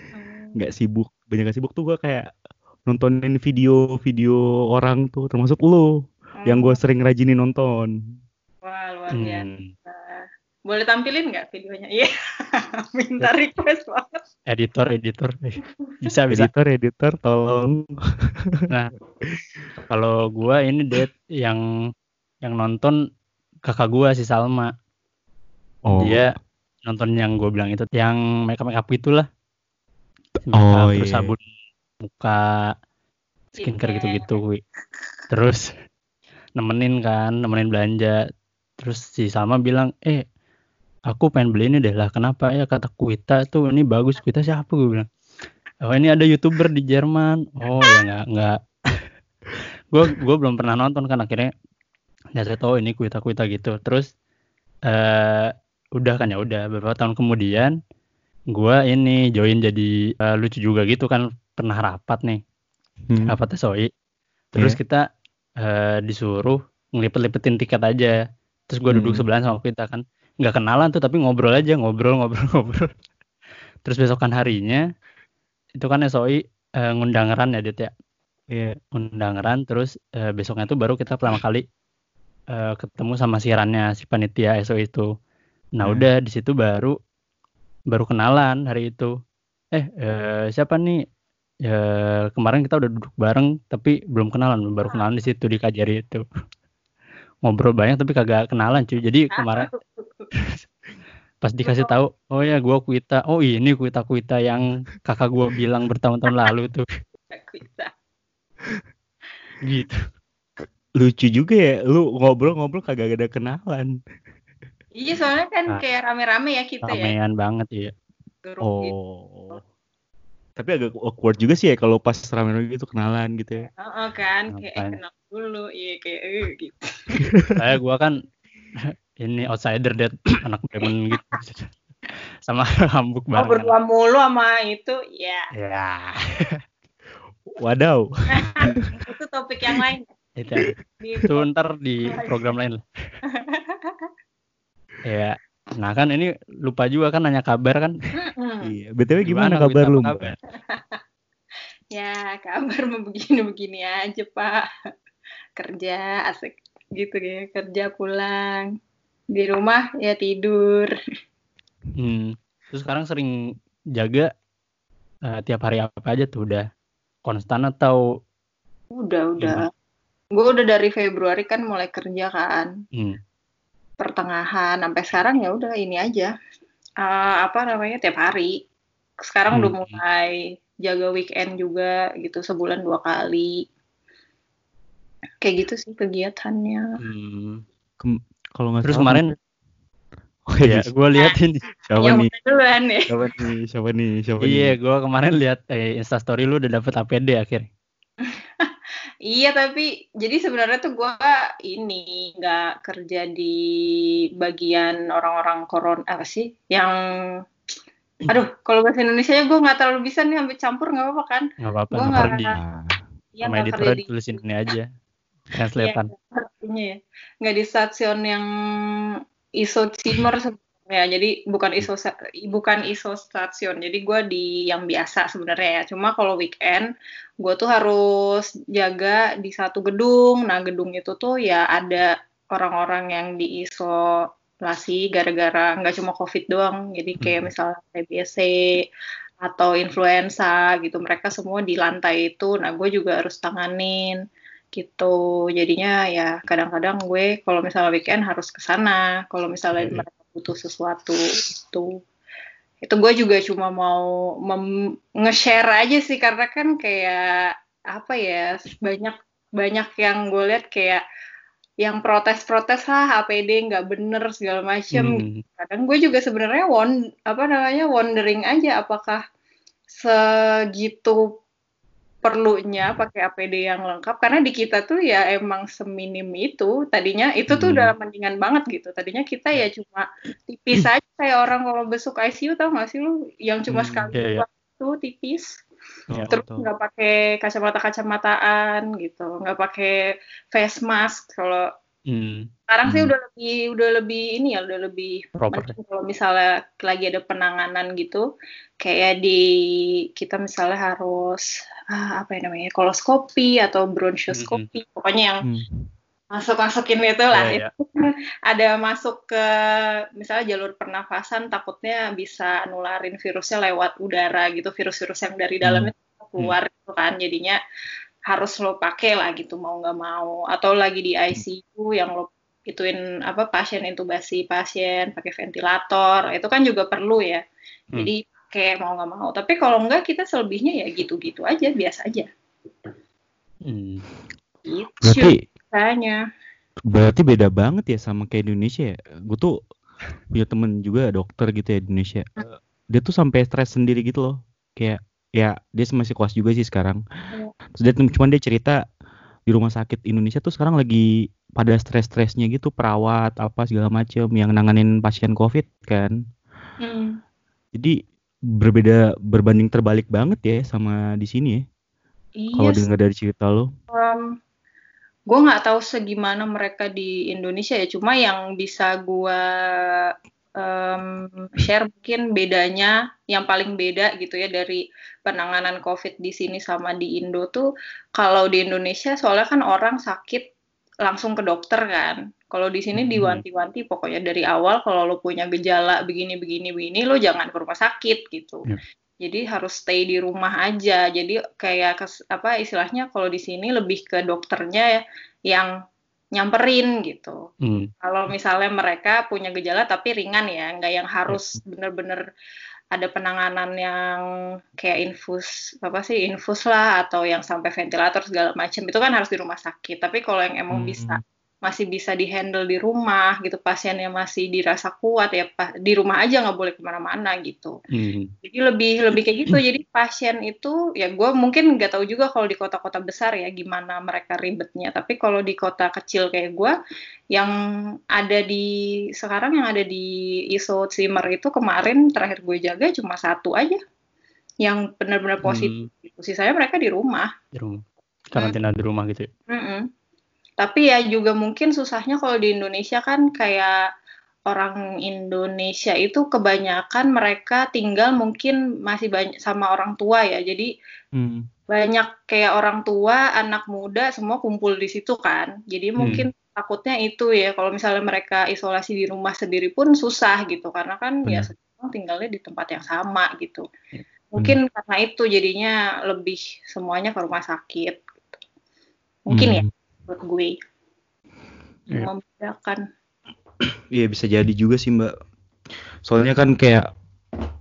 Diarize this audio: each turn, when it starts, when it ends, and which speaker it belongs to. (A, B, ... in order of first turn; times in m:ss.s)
0:00.1-0:00.6 A
0:00.6-0:02.3 B
0:02.9-0:05.9 B
0:06.4-0:06.8 A
0:06.5-0:07.9 B
0:08.6-0:14.2 A
0:09.1-0:09.7 C
0:14.5-0:16.5 C
0:16.3-0:18.6 B
0:19.9-0:21.6 C
0:22.4-0:23.0 C
0:23.7-0:24.7 C
0:25.9-0:26.2 B
0:26.0-0:26.3 C
0:26.9-0:29.3 C
0:30.6-0:31.3 B
0:30.6-0:31.4 C
0:32.0-0:32.7 C
0:33.6-0:34.4 A
0:33.6-0:34.6 C
0:35.3-0:35.7 C
0:36.6-0:38.2 C
0:38.8-0:40.2 C
0:41.1-0:45.1 C
0:45.8-0:49.1 C
0:49.9-0:51.5 C
0:52.4-0:54.1 C
0:54.9-0:57.8 C
0:58.5-1:02.4 C
1:03.1-1:03.4 B
1:03.3-1:03.9 C
1:04.5-1:05.0 C
1:05.6-1:08.2 C
1:08.7-1:12.9 C
1:08.9-1:09.2 B
1:13.8-1:14.8 C
1:15.8-1:17.9 C
1:18.9-1:21.6 C
1:22.5-1:25.1 C
1:25.8-1:27.0 C
1:27.9-1:29.1 C
1:29.8-1:31.0 C
1:31.7-1:36.2 C
1:37.5-1:39.7 C
1:39.3-1:40.3 A
1:41.4-1:46.8 C
1:41.6-1:42.0 A
1:47.3-1:47.9 A
1:49.6-1:50.0 C
1:51.0-1:53.9 B
1:55.0-1:57.1 A
1:56.8-1:57.9 C
1:58.4-1:58.9 A
1:58.6-1:59.6 B
2:00.6-2:03.7 B
2:03.8-2:07.3 A
2:04.5-2:05.0 C
2:07.2-2:07.5 B
2:07.6-2:08.1 C
2:09.2-2:11.7 C
2:12.5-2:13.7 C
2:13.4-2:15.5 A
2:15.6-2:16.6 C
2:17.5-2:18.8 B
2:18.3-2:20.1 A
2:20.4-2:20.7 C
2:20.6-2:21.3 B
2:21.0-2:21.4 A
2:21.3-2:22.8 C
2:23.3-2:24.1 A
2:25.0-2:28.0 C
2:28.2-2:28.7 A
2:28.6-2:30.4 B
2:29.2-2:30.3 C
2:30.7-2:31.0 A
2:31.9-2:34.6 A
2:35.6-2:38.7 A
2:39.3-2:40.9 A
2:42.0-2:43.3 C
2:44.0-2:44.3 C
2:45.3-2:46.6 C
2:47.3-2:48.0 C
2:49.0-2:49.7 A
2:50.3-2:52.7 A
2:54.0-2:56.3 A
2:57.0-2:58.6 A
2:59.2-3:03.6 A
2:59.5-3:00.0 C
3:05.4-3:06.9 A
3:07.0-3:07.6 C
3:08.0-3:09.2 B
3:08.8-3:09.4 C
3:10.5-3:10.9 B
3:10.6-3:11.7 C
3:11.9-3:12.3 B
3:12.0-3:13.1 A
3:13.1-3:14.7 B
3:14.4-3:17.7 C
3:18.2-3:18.7 A
3:19.3-3:27.4 A
3:28.3-3:32.6 A
3:31.6-3:32.5 C
3:32.1-3:33.0 B
3:33.4-3:34.4 A
3:33.4-3:34.9 C
3:35.5-3:36.1 C
3:35.8-3:58.8 A
3:57.2-3:57.5 C
3:59.4-4:04.2 A
4:04.8-4:12.0 A
4:12.8-4:14.7 A
4:15.2-4:21.0 A
4:21.8-4:29.2 A
4:24.9-4:25.4 C
4:29.9-4:31.2 A
4:32.2-4:45.6 A
4:37.5-4:37.9 C
4:43.7-4:44.1 B
4:44.1-4:44.4 C
4:46.1-4:46.6 B
4:46.3-4:50.0 A
4:50.5-4:51.7 A
4:52.1-4:52.5 C
4:52.7-4:58.2 A
4:55.4-4:55.8 C
4:58.8-4:59.5 A
5:00.2-5:05.4 A
5:04.3-5:04.6 C
5:05.4-5:05.9 B
5:06.3-5:17.6 A
5:07.3-5:07.7 C
5:18.3-5:27.4 A
5:28.0-5:32.3 A
5:33.7-5:34.0 C
5:34.7-5:36.2 A
5:35.0-5:35.4 B
5:36.9-5:39.6 B
5:40.3-5:42.3 B
5:42.9-5:47.0 B
5:47.8-5:48.8 B
5:49.5-5:56.2 B
5:56.8-5:57.2 A
5:58.6-6:01.6 B
6:02.4-6:02.8 A
6:02.6-6:03.7 B
6:03.9-6:04.3 A
6:05.3-6:20.5 A
6:21.0-6:28.7 A
6:23.0-6:23.4 C
6:29.2-6:35.7 A
6:36.4-6:37.4 A
6:37.6-6:37.9 C
6:38.0-6:42.2 A
6:42.9-6:44.2 A
6:44.8-6:57.8 A
6:50.7-6:51.2 B
6:57.9-6:58.3 C
6:58.4-7:06.8 A
7:08.1-7:13.8 A
7:14.6-7:17.3 A
7:15.4-7:15.9 C
7:17.6-7:17.8 C
7:18.3-7:19.3 C
7:19.5-7:19.9 A
7:20.6-7:23.8 A
7:24.5-7:30.7 A
7:31.2-7:31.5 B
7:31.7-7:43.6 A
7:36.0-7:36.3 C
7:44.3-7:48.4 A
7:49.3-7:50.5 A
7:49.3-7:49.7 B
7:51.9-7:52.8 A
7:53.9-7:55.1 B
7:56.0-7:56.9 B